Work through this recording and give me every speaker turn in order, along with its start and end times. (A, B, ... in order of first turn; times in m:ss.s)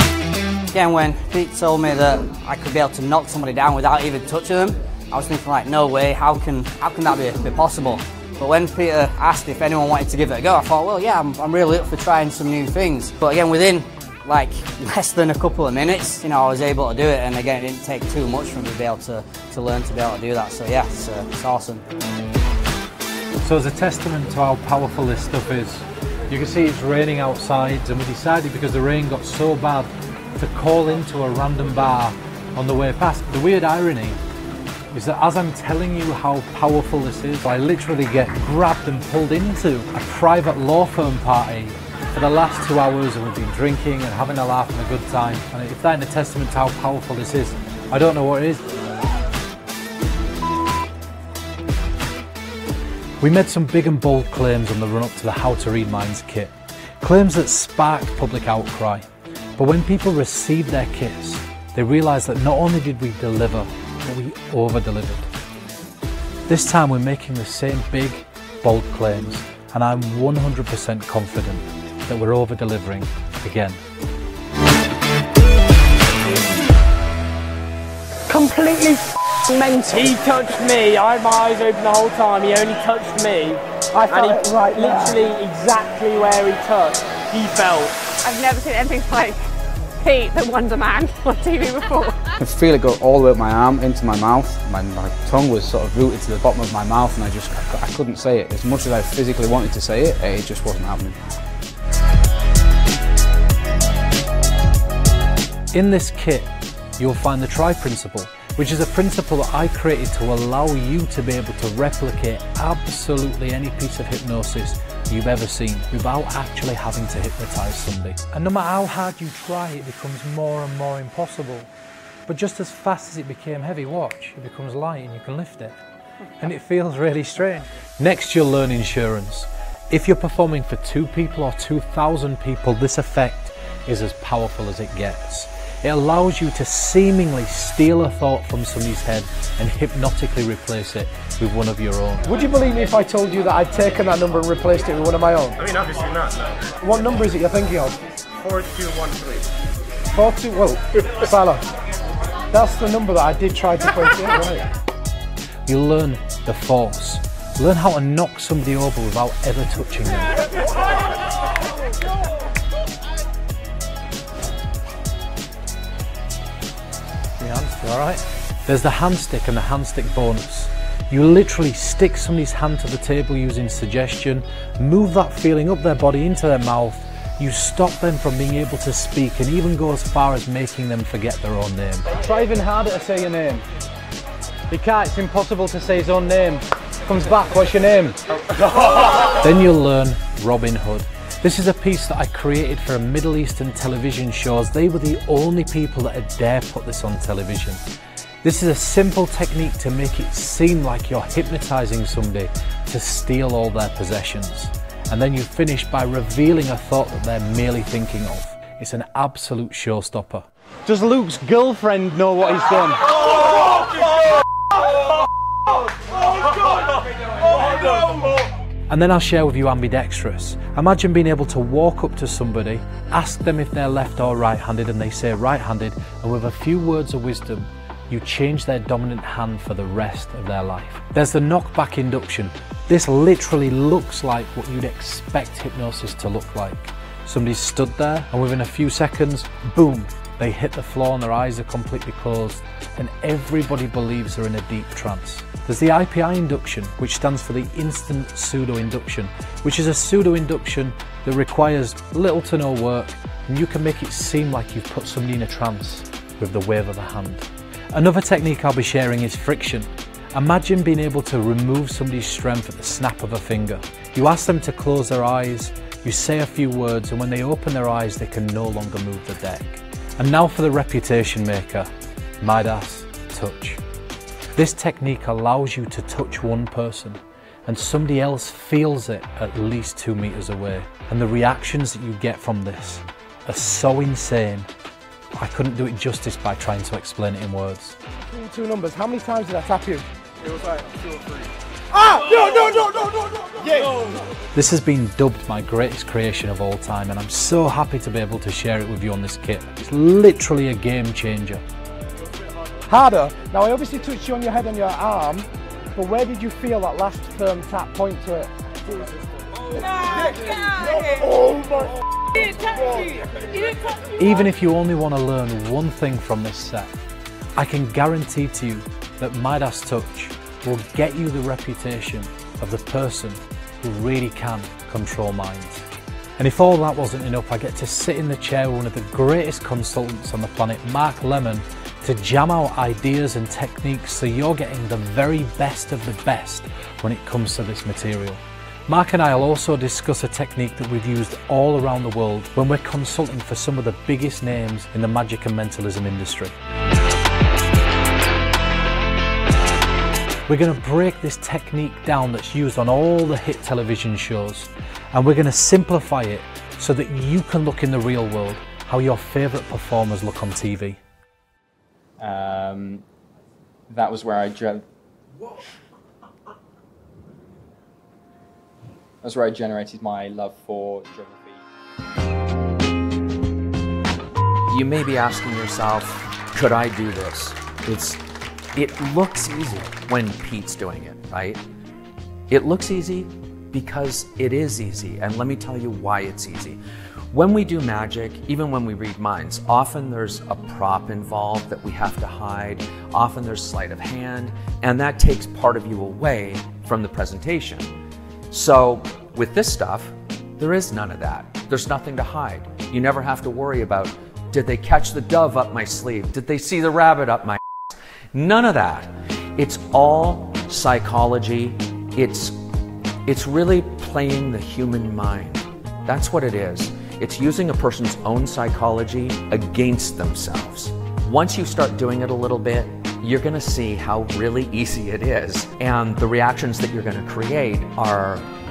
0:00.7-0:21.8 A
0:23.4-0:34.2 B
0:34.9-0:48.6 B
0:53.2-0:59.0 B
0:59.6-1:05.3 B
1:06.5-1:13.8 B
1:18.4-1:18.9 C
1:19.5-1:23.6 C
1:23.9-1:25.2 D
1:24.1-1:27.9 C
1:28.2-1:29.4 E
1:30.0-1:32.3 E
1:32.4-1:41.2 F
1:45.7-2:01.7 B
2:02.3-2:05.8 B
2:06.4-2:22.2 B
2:22.2-2:25.6 D
2:25.7-2:26.3 G
2:26.8-2:28.0 D
2:28.4-2:29.2 G
2:30.1-2:31.6 D
2:32.5-2:34.6 D
2:35.6-2:40.4 B
2:47.4-3:03.6 B
3:04.7-3:08.1 B
3:09.1-3:17.8 B
3:18.4-3:33.2 B
3:38.9-4:31.9 B
4:32.4-4:33.8 B
4:34.6-4:44.7 B
4:45.3-4:48.0 B
4:48.2-4:50.1 D
4:50.4-4:51.4 G
4:51.9-4:53.9 D
4:54.5-5:01.6 B
5:02.9-5:08.5 D
5:09.9-5:11.6 D
5:14.2-5:16.9 B
5:17.6-5:25.9 B
5:26.4-5:46.5 B
5:50.5-6:01.0 B
6:02.2-6:03.0 H
6:03.9-6:04.9 H
6:09.2-6:11.6 H
6:14.7-6:18.2 I
6:18.8-6:21.6 I
6:22.5-6:26.8 I
6:27.3-6:37.9 I
6:38.5-6:47.6 I
6:48.3-6:52.6 I
6:53.3-7:08.5 I